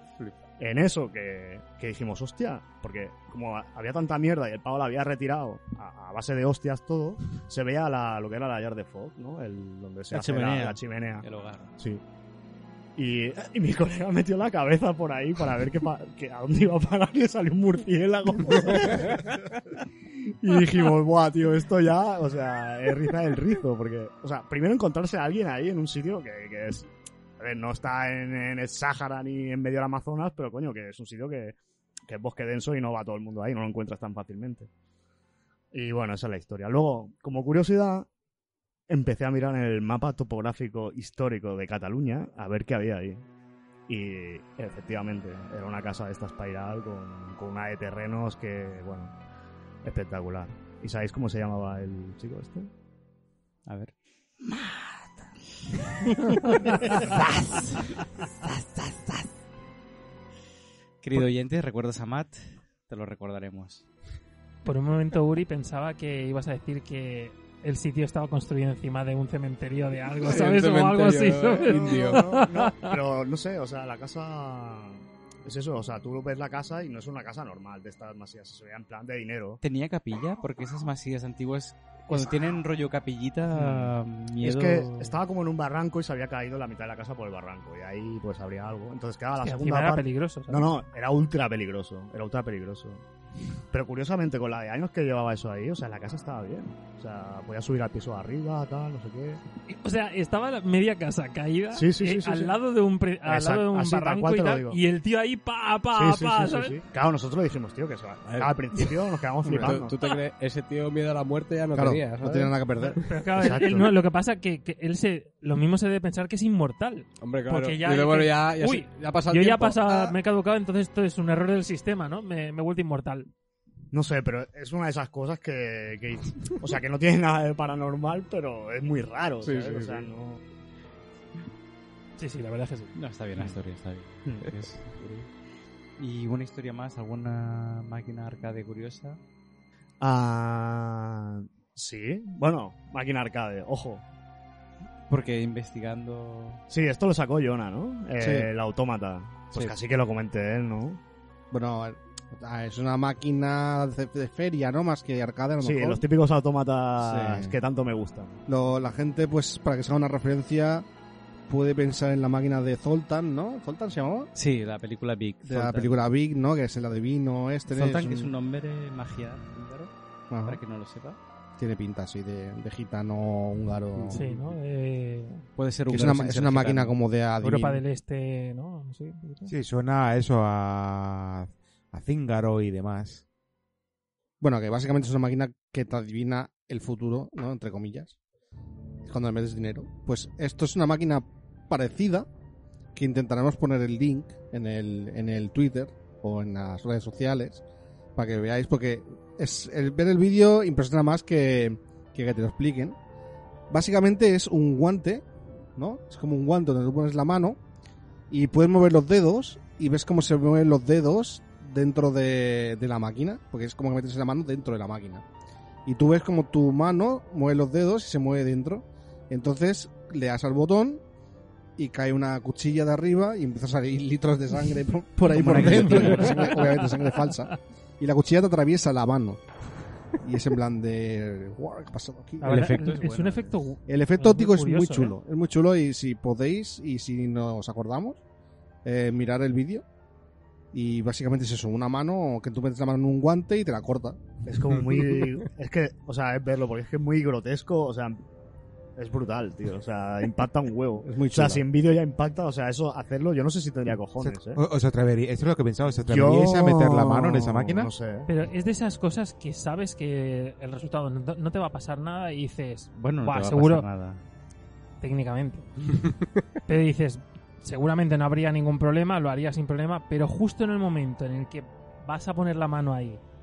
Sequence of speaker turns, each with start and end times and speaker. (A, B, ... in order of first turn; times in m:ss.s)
0:00.6-0:11.3 A
0:10.1-0:11.7 B
0:13.0-0:19.8 A
0:20.4-0:34.7 A
0:35.7-0:38.1 A
0:38.9-0:43.2 A
0:43.9-0:49.2 A
0:49.8-0:52.7 A
0:53.7-0:55.1 B
0:56.3-0:59.3 B
1:01.0-1:03.9 B
1:04.6-1:12.9 C
1:10.2-1:12.4 D
1:11.7-1:19.6 A
1:19.6-1:25.2 B
1:22.1-1:22.5 A
1:23.5-1:33.0 A
1:29.4-1:30.7 C
1:33.7-1:39.4 A
1:39.7-1:46.8 C
1:41.8-1:42.6 A
1:43.2-1:44.8 A
1:45.9-1:50.0 A
1:48.2-1:48.9 D
1:49.4-1:52.5 D
1:51.7-1:53.0 E
1:53.0-2:03.3 C
1:53.4-1:54.0 A
1:57.2-2:00.2 D
2:03.9-2:10.4 A
2:09.4-2:10.1 D
2:12.2-2:12.9 C
2:13.0-2:15.0 B
2:16.0-2:19.2 B
2:20.0-2:24.0 A
2:25.1-2:26.6 B
2:26.7-2:31.0 A
2:28.2-2:28.5 E
2:31.5-2:36.0 E
2:35.6-2:38.4 A
2:37.0-2:37.6 E
2:38.5-2:40.9 E
2:41.5-2:44.3 E
2:44.4-2:46.0 B
2:45.4-2:48.3 E
2:47.7-2:49.9 B
2:50.3-2:50.6 E
2:50.4-2:51.2 B
2:51.6-2:54.3 E
2:54.0-2:54.5 D
2:54.1-2:55.4 C
2:55.6-2:57.0 B
2:55.9-2:57.8 E
2:57.4-2:59.5 C
2:59.5-3:03.2 F
3:04.4-3:08.2 E
3:09.0-3:12.3 E
3:13.0-3:17.6 E
3:18.2-3:23.0 E
3:23.7-3:27.6 E
3:28.3-3:35.3 E
3:35.9-3:41.0 E
3:41.8-3:49.5 E
3:45.3-3:46.6 B
3:45.6-3:47.5 C
3:50.2-3:52.8 E
3:52.4-3:55.1 C
3:52.4-3:53.6 B
3:53.9-3:58.2 E
3:58.8-3:59.8 E
4:00.7-4:04.2 E
4:04.5-4:08.2 A
4:09.0-4:14.6 A
4:11.0-4:11.6 E
4:14.2-4:17.9 F
4:16.0-4:18.3 A
4:18.3-4:23.8 C
4:23.0-4:24.2 B
4:25.0-4:26.0 C
4:26.7-4:33.2 C